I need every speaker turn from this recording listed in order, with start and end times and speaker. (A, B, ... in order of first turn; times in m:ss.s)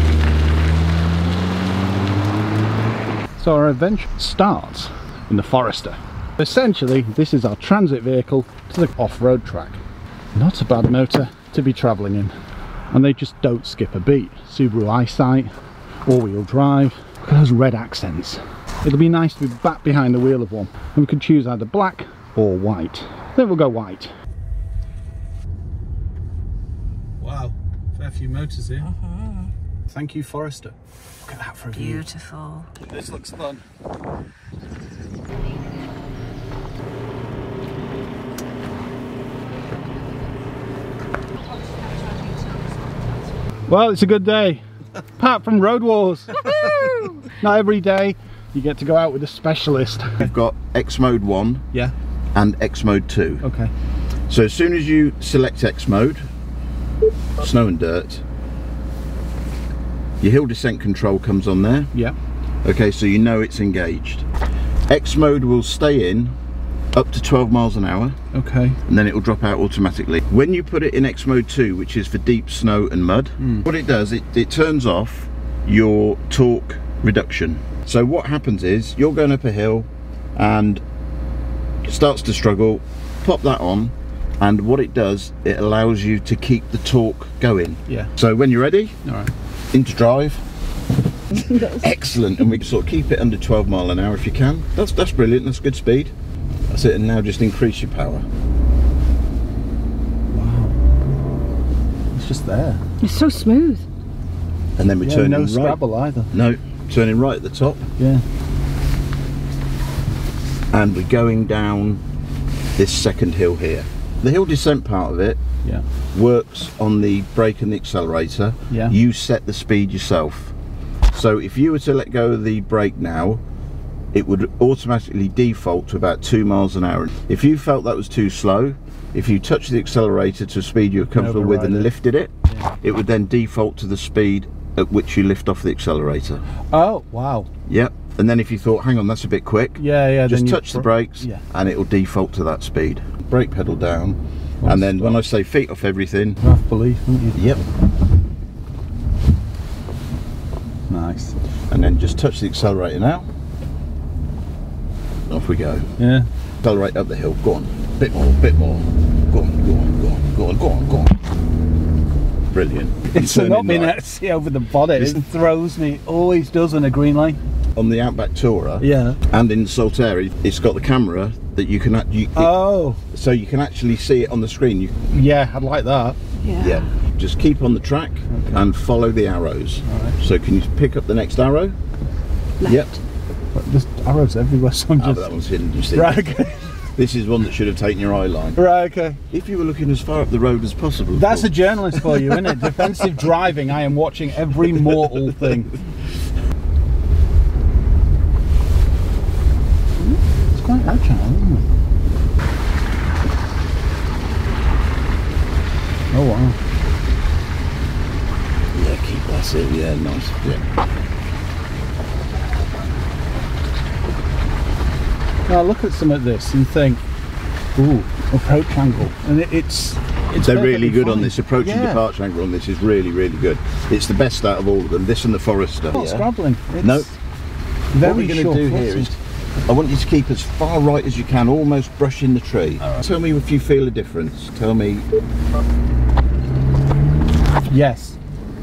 0:03.4-0:09.8 A
0:10.3-0:12.3 A
0:12.9-0:15.5 A
0:16.0-0:24.1 A
0:27.2-0:28.9 A
0:29.9-0:32.0 A
0:31.7-0:32.7 B
0:32.8-0:33.6 A
0:41.5-0:43.2 B
0:43.7-0:44.6 A
0:45.2-0:50.3 A
0:46.6-0:47.0 B
0:50.2-0:51.6 C
0:52.3-0:53.4 C
0:53.4-0:53.7 A
0:54.3-0:56.3 C
0:57.4-0:58.2 C
1:00.2-1:01.9 C
1:02.6-1:04.3 C
1:04.9-1:06.3 C
1:06.9-1:08.2 C
1:08.3-1:08.8 A
1:08.9-1:20.8 C
1:13.4-1:13.6 A
1:21.8-1:29.0 C
1:29.0-1:29.3 A
1:29.7-1:30.4 C
1:31.3-1:36.1 C
1:36.7-1:38.2 C
1:40.3-1:40.8 A
1:42.1-1:42.8 A
1:43.0-1:43.8 B
1:44.8-1:47.9 C
1:45.0-1:46.3 A
1:48.0-1:48.2 A
1:50.7-1:52.0 C
1:52.8-1:55.4 C
1:56.1-2:00.5 C
1:58.7-1:59.0 A
2:01.1-2:03.4 C
2:04.1-2:16.4 C
2:11.1-2:11.9 A
2:16.7-2:17.5 A
2:17.7-2:26.4 C
2:19.8-2:21.4 A
2:24.6-2:25.2 A
2:26.4-2:27.4 A
2:27.3-2:27.6 C
2:30.9-2:31.3 A
2:31.7-2:33.2 C
2:35.3-2:35.9 C
2:36.0-2:36.3 A
2:36.6-2:41.1 C
2:42.5-2:44.0 C
2:43.1-2:47.4 A
2:45.0-2:45.2 C
2:47.8-2:52.5 C
2:48.8-2:49.2 A
2:52.4-2:53.0 A
2:53.1-2:55.0 C
2:55.1-2:56.2 A
2:56.4-2:56.8 B
2:56.6-3:01.8 C
2:58.3-2:58.6 A
2:59.8-3:00.2 A
3:02.6-3:03.0 B
3:02.6-3:02.9 C
3:03.5-3:05.3 A
3:05.0-3:08.6 C
3:05.9-3:06.7 A
3:08.6-3:09.2 A
3:09.3-3:12.8 C
3:11.1-3:15.8 A
3:20.5-3:21.6 A
3:26.1-3:26.6 A
3:28.7-3:30.6 C
3:35.5-3:37.0 A
3:37.8-3:42.0 A
3:40.4-3:46.3 C
3:45.9-3:47.1 A
3:46.8-3:47.1 C
3:47.9-3:49.2 A
3:48.0-3:55.0 C
3:57.7-3:58.2 A